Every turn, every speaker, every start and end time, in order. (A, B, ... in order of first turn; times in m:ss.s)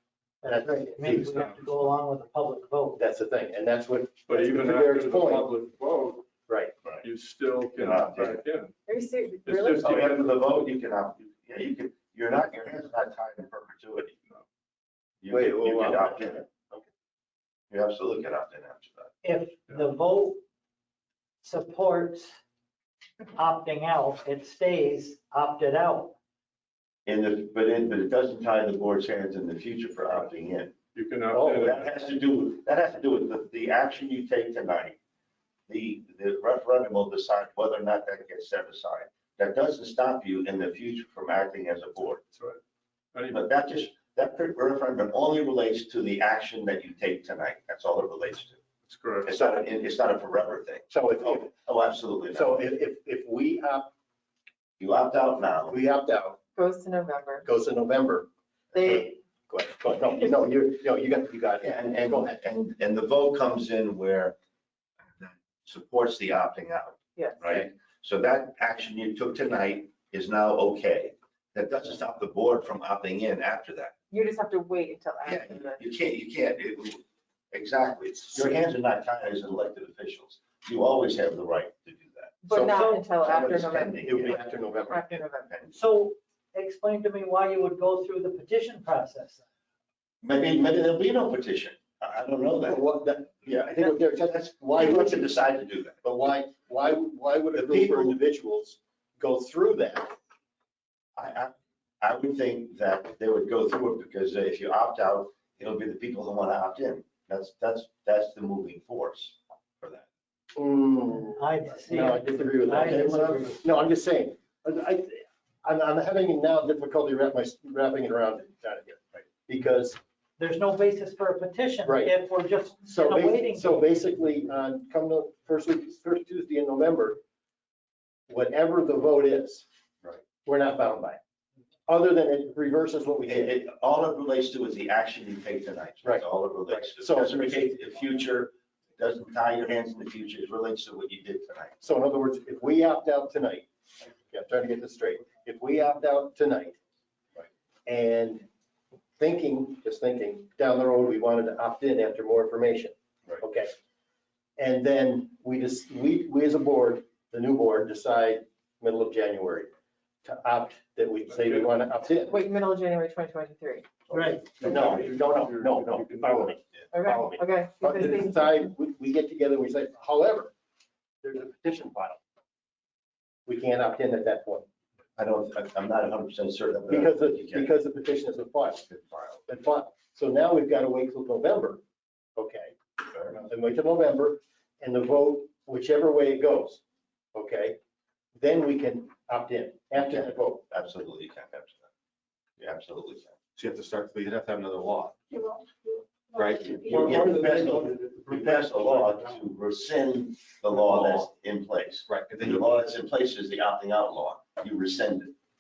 0:00.4-0:03.0 A
0:00.4-0:01.5 B
0:03.0-0:05.5 B
0:04.3-0:06.1 C
0:05.6-0:06.2 D
0:06.5-0:06.7 B
0:07.0-0:08.7 D
0:07.8-0:08.4 E
0:08.9-0:10.2 C
0:09.4-0:10.2 D
0:09.7-0:14.1 E
0:15.2-0:16.4 E
0:15.3-0:16.9 B
0:17.7-0:19.1 E
0:19.2-0:20.4 A
0:21.4-0:22.3 A
0:23.4-0:26.2 A
0:27.1-0:30.8 E
0:30.9-0:31.8 D
0:31.3-0:35.0 E
0:35.7-0:42.2 E
0:43.1-0:43.4 D
0:43.3-0:48.6 E
0:48.9-0:49.3 D
0:49.2-0:52.6 E
0:50.9-0:51.5 B
0:52.3-0:53.9 B
0:54.8-0:55.8 E
0:55.7-0:56.4 B
0:56.6-0:57.5 C
0:57.4-1:02.4 B
0:58.7-0:59.0 C
1:01.6-1:04.4 E
1:05.2-1:13.9 E
1:07.2-1:07.6 C
1:14.1-1:15.8 C
1:15.2-1:22.4 E
1:22.4-1:25.6 C
1:22.5-1:22.8 B
1:22.6-1:23.0 A
1:23.2-1:24.4 E
1:24.0-1:25.2 B
1:25.7-1:29.4 A
1:30.2-1:32.8 E
1:32.6-1:35.4 B
1:33.4-1:36.0 E
1:36.0-1:40.1 B
1:37.5-1:38.2 E
1:41.2-1:50.0 E
1:50.6-2:00.0 B
1:51.3-1:53.6 A
2:00.4-2:04.0 A
2:01.8-2:02.1 B
2:02.9-2:07.2 B
2:08.3-2:09.7 B
2:10.2-2:11.2 B
2:11.9-2:13.5 B
2:13.3-2:21.8 E
2:16.0-2:17.5 B
2:21.8-2:26.8 B
2:27.9-2:28.5 B
2:29.2-2:33.7 B
2:34.6-2:39.7 B
2:40.2-2:42.4 B
2:42.2-2:43.9 C
2:44.1-2:44.6 A
2:44.1-2:45.1 E
2:44.5-2:50.5 B
2:44.6-2:46.6 D
2:46.9-2:48.7 C
2:51.2-2:52.2 B
2:53.5-2:54.7 B
2:55.2-2:57.7 E
2:56.9-2:58.8 B
2:58.9-2:59.4 E
2:59.5-3:01.8 B
3:02.4-3:06.8 B
3:07.3-3:07.8 B
3:08.4-3:10.6 B
3:10.0-3:11.9 E
3:12.6-3:13.4 E
3:13.6-3:15.2 F
3:16.3-3:19.3 F
3:16.6-3:25.3 E
3:20.7-3:21.3 F
3:22.1-3:22.7 F